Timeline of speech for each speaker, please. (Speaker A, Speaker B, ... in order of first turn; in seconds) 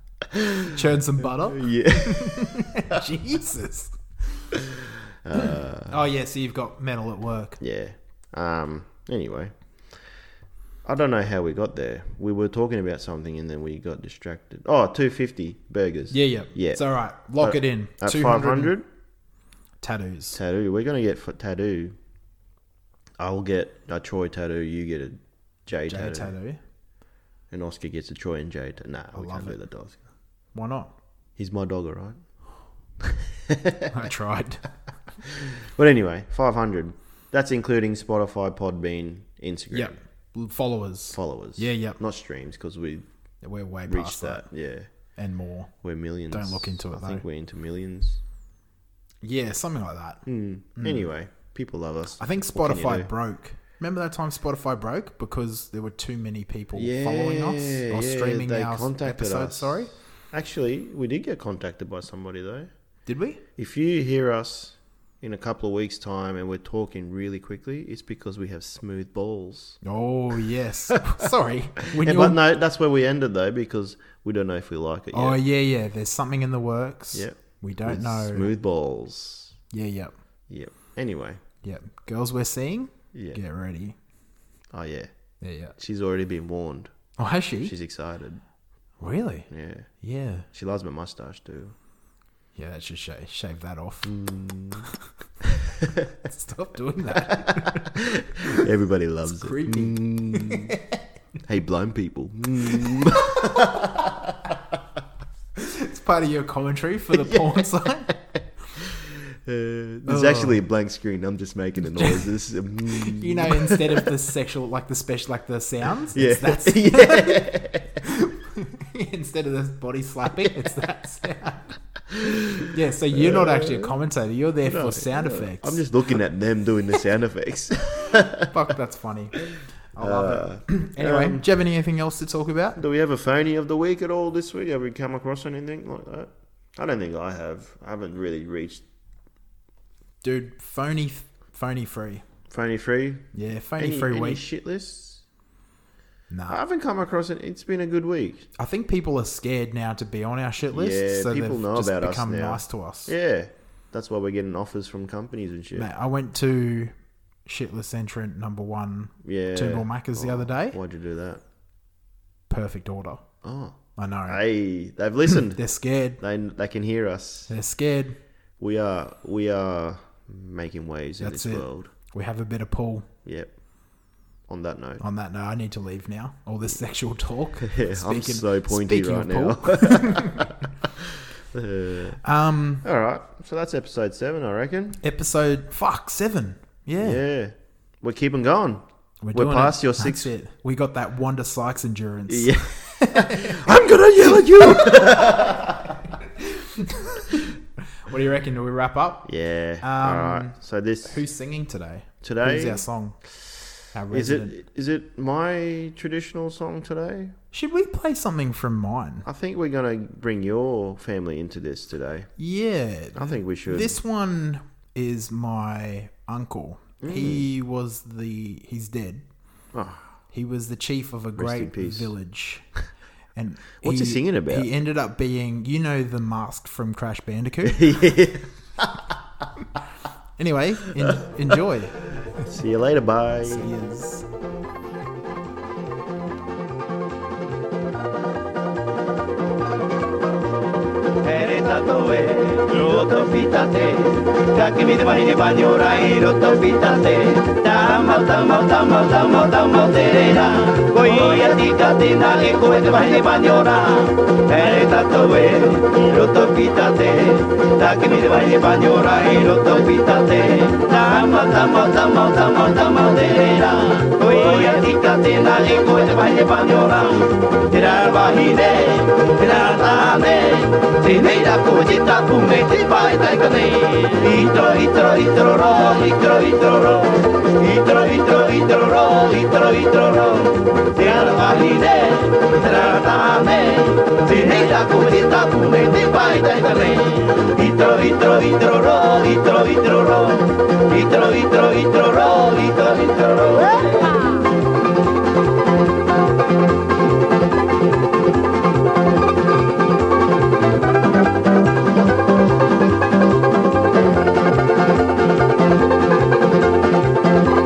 Speaker A: 0.3-0.7, 1.5-2.7, 5.2-6.0, 7.6-9.5, 10.8-16.8, 17.4-18.9, 20.3-21.9, 23.2-26.3, 27.5-30.0, 31.4-32.2, 33.0-33.9, 35.5-40.0, 41.1-43.1, 43.9-44.9, 45.8-48.2, 50.2-53.1, 56.7-62.7, 63.6-69.8, 71.9-75.4, 77.1-79.5, 80.5-81.4, 83.1-83.4, 84.7-85.1, 85.8-86.9, 87.6-88.4, 89.5-89.9, 90.5-91.7, 94.0-94.9, 97.5-100.7, 101.5-104.3, 108.8-114.1, 116.1-118.0, 122.1-124.0, 124.6-128.5, 130.0-131.4, 132.8-138.8, 142.5-145.2, 146.5-148.5, 150.7-155.9, 159.2-161.4, 163.4-165.6, 166.2-167.5, 168.6-171.9, 173.2-173.5, 174.5-175.0, 177.6-180.6, 181.5-182.2, 182.8-185.0, 187.0-190.3, 192.3-196.0, 199.2-201.2, 202.2-202.8, 204.1-207.3, 209.2-212.3, 213.1-214.0, 217.0-217.4, 219.7-220.2, 221.3-222.1, 223.8-224.7, 227.6-229.0, 232.2-233.7
Speaker B: 0.7-4.5, 5.9-7.6, 16.1-18.7, 19.8-20.4, 25.9-26.6, 29.1-29.6, 30.5-30.9, 33.9-34.6, 39.7-42.0, 43.4-44.4, 45.1-47.2, 49.2-50.2, 50.8-51.1, 52.2-59.9, 63.0-63.4, 69.8-72.4, 75.1-78.5, 79.7-80.1, 81.6-84.0, 85.4-85.7, 87.2-87.7, 89.0-90.5, 92.5-94.2, 96.2-98.6, 99.3-101.0, 102.7-103.6, 105.5-108.1, 110.1-110.6, 111.9-112.3, 112.8-121.8, 122.7-125.8, 128.4-129.4, 129.9-132.8, 140.2-142.2, 143.3-144.4, 146.3-146.6, 148.6-153.1, 155.8-156.9, 157.4-160.8, 162.5-163.2, 163.9-164.4, 165.3-166.2, 167.5-168.2, 171.2-173.1, 175.0-180.5, 182.2-182.8, 185.0-187.2, 189.2-195.5, 196.2-197.4, 198.0-199.3, 199.8-203.2, 203.9-204.5, 207.5-209.2, 212.4-219.2, 220.3-222.7, 223.3-228.1, 230.4-232.4, 233.3-234.2
Speaker C: 241.2-294.2